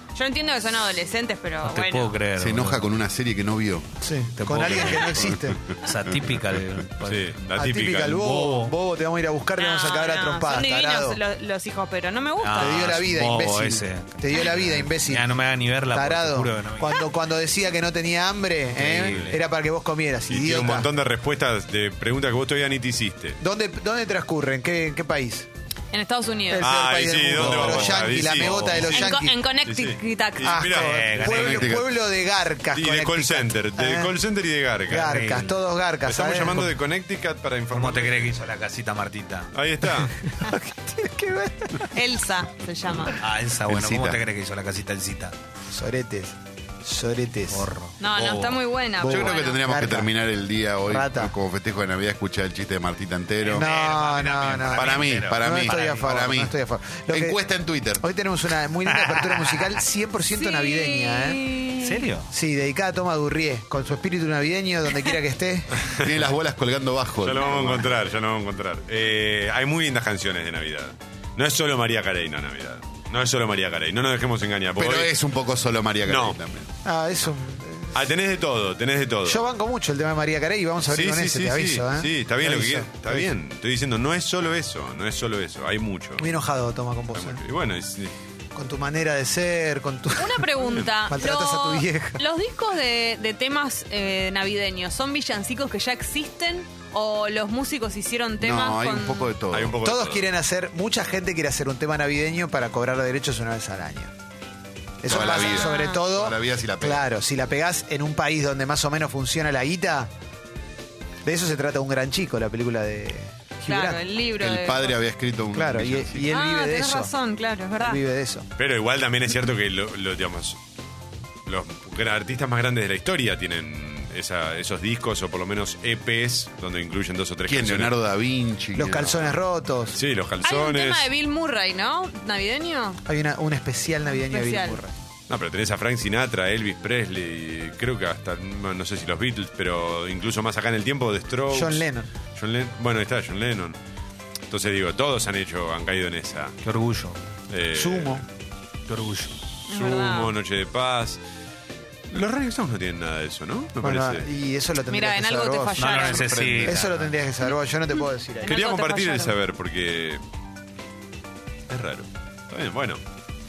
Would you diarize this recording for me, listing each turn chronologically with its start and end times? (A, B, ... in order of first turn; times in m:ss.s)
0:00.1-0:02.2 A
0:01.6-0:02.8 B
0:02.4-0:03.9 C
0:04.0-0:05.8 D
0:04.4-0:05.2 B
0:05.8-0:07.5 B
0:07.0-0:08.3 E
0:07.6-0:11.2 D
0:08.1-0:08.7 B
0:09.6-0:13.0 A
0:12.4-0:17.0 B
0:12.6-0:15.4 D
0:15.9-0:20.9 D
0:18.8-0:19.4 B
0:18.8-0:19.4 E
0:20.3-0:23.4 E
0:23.4-0:25.5 D
0:25.9-0:26.7 A
0:26.5-0:29.4 D
0:26.6-0:31.8 E
0:27.4-0:28.9 B
0:28.9-0:30.7 A
0:30.4-0:34.1 D
0:30.7-0:31.6 B
0:31.4-0:31.9 C
0:32.7-0:35.2 E
0:34.9-0:36.7 D
0:34.9-0:35.5 B
0:36.0-0:38.3 E
0:37.7-0:39.5 B
0:39.5-0:40.1 E
0:40.3-0:41.9 D
0:41.9-0:43.2 A
0:43.1-0:45.4 B
0:43.7-0:44.2 C
0:45.7-0:47.7 D
0:47.5-0:48.0 B
0:48.0-0:49.6 A
0:49.0-0:50.1 D
0:49.0-0:53.7 C
0:50.8-0:51.3 D
0:53.4-0:56.1 B
0:53.5-0:57.4 D
0:54.7-0:56.5 C
0:57.1-0:58.0 C
0:58.0-1:01.5 D
0:58.9-0:59.6 B
1:00.3-1:02.0 A
1:01.8-1:02.3 B
1:02.3-1:05.8 D
1:05.9-1:07.9 C
1:07.2-1:15.1 E
1:14.8-1:16.7 C
1:16.0-1:16.4 E
1:16.8-1:18.1 D
1:17.9-1:19.5 E
1:19.2-1:23.3 D
1:20.8-1:26.3 E
1:26.2-1:27.4 D
1:27.1-1:28.1 E
1:28.5-1:32.2 D
1:30.1-1:39.4 A
1:30.7-1:30.9 E
1:38.4-1:39.8 C
1:39.5-1:40.3 E
1:39.8-1:44.1 D
1:45.0-1:50.1 D
1:45.1-1:47.0 C
1:45.1-1:46.0 A
1:51.2-1:54.0 D
1:53.7-1:54.9 A
1:54.4-1:56.3 C
1:55.5-1:57.1 D
1:56.3-1:58.0 A
1:57.8-1:58.5 D
1:58.6-2:00.6 E
2:01.4-2:07.9 E
2:07.5-2:09.4 C
2:08.8-2:10.0 D
2:09.9-2:11.1 E
2:10.4-2:13.0 A
2:13.0-2:14.9 D
2:14.0-2:14.8 A
2:15.3-2:23.8 E
2:21.5-2:22.1 D
2:24.5-2:26.5 E
2:26.6-2:27.2 B
2:27.5-2:28.2 E
2:27.7-2:28.2 D
2:28.9-2:29.3 B
2:29.7-2:30.3 A
2:29.7-2:31.2 E
2:32.1-2:34.2 E
2:33.8-2:38.6 D
2:34.9-2:36.5 A
2:35.8-2:36.9 B
2:36.3-2:36.9 C
2:37.9-2:39.4 A
2:38.4-2:40.2 E
2:41.7-2:43.0 E